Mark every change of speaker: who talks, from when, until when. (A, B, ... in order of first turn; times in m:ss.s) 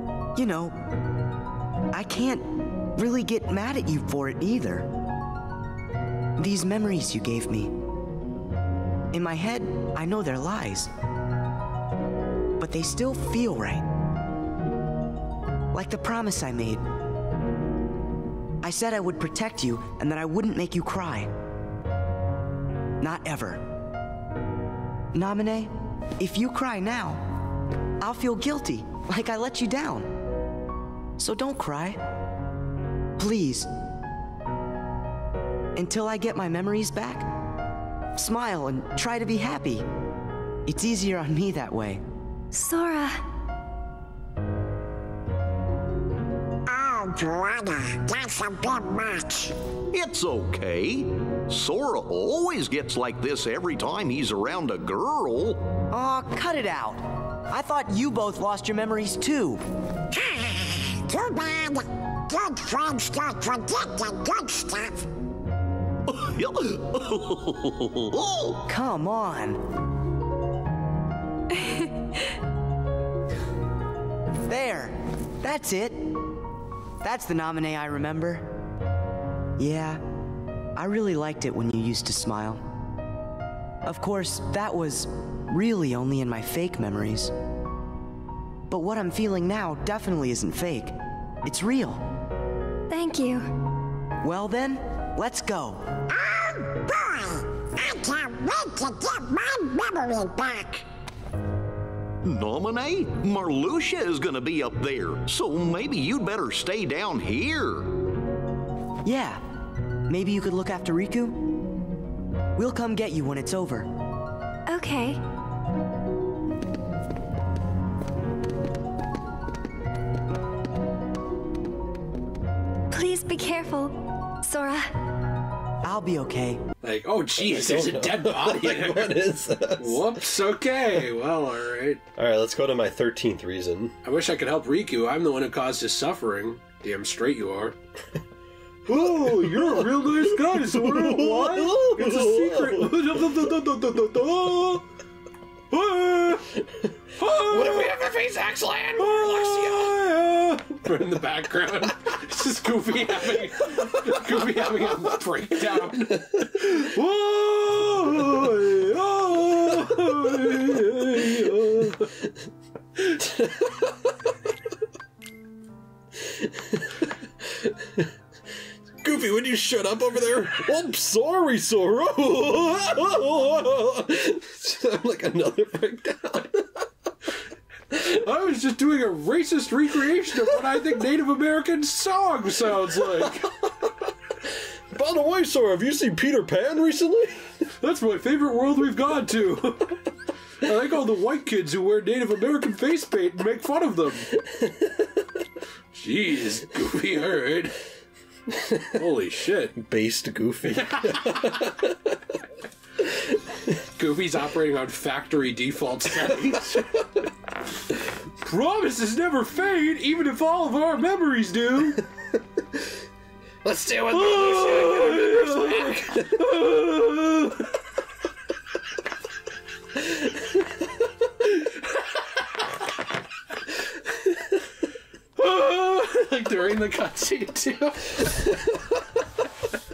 0:00.4-0:00.8 A
0:01.9-0:04.9 A
0:06.4-0:07.8 A
0:09.1-0:10.9 A
0:12.6-0:13.9 A
0:15.7-0:16.8 A
0:18.6-0:21.3 A
0:23.0-0:23.6 A
0:25.1-0:27.2 A
0:28.0-0:30.1 A
0:31.2-0:32.0 A
0:33.2-0:33.7 A
0:35.8-0:37.3 A
0:38.2-0:39.9 A
0:40.7-0:42.0 A
0:42.5-0:43.2 B
0:46.7-0:49.5 C
0:49.9-0:55.6 D
0:55.9-0:59.6 A
1:00.1-1:05.1 C
1:06.1-1:08.6 D
1:08.7-1:09.6 A
1:14.5-1:16.2 A
1:17.0-1:18.5 A
1:19.6-1:20.0 A
1:20.8-1:22.6 A
1:23.8-1:27.3 A
1:28.7-1:32.0 A
1:32.9-1:33.5 B
1:34.2-1:35.9 A
1:36.1-1:40.8 C
1:42.2-1:47.9 D
1:49.0-1:49.4 A
1:50.1-1:51.6 A
1:52.6-1:53.9 A
1:54.7-1:55.2 B
2:02.9-2:04.9 B
2:05.8-2:06.6 A
2:06.8-2:09.2 E
2:07.4-2:10.2 F
2:09.8-2:12.0 E
2:12.2-2:13.9 F
2:14.0-2:17.8 E
2:18.9-2:24.8 E
2:18.9-2:23.0 F
2:25.7-2:26.6 E
2:27.2-2:28.1 E
2:27.4-2:30.0 F
2:28.9-2:42.1 E
2:43.0-2:43.3 E
2:46.2-2:48.1 F
2:49.0-2:56.9 F
2:57.9-3:03.5 E
3:03.2-3:03.9 F
3:04.9-3:07.5 F
3:07.8-3:10.0 E
3:10.6-3:14.4 E
3:14.6-3:14.9 F
3:15.9-3:17.8 E
3:18.5-3:19.0 F
3:18.9-3:19.7 E
3:19.8-3:22.0 F
3:20.8-3:21.7 E
3:24.0-3:27.1 E
3:28.4-3:32.0 E
3:33.6-3:36.4 F
3:34.1-3:37.6 E
3:45.4-3:48.5 E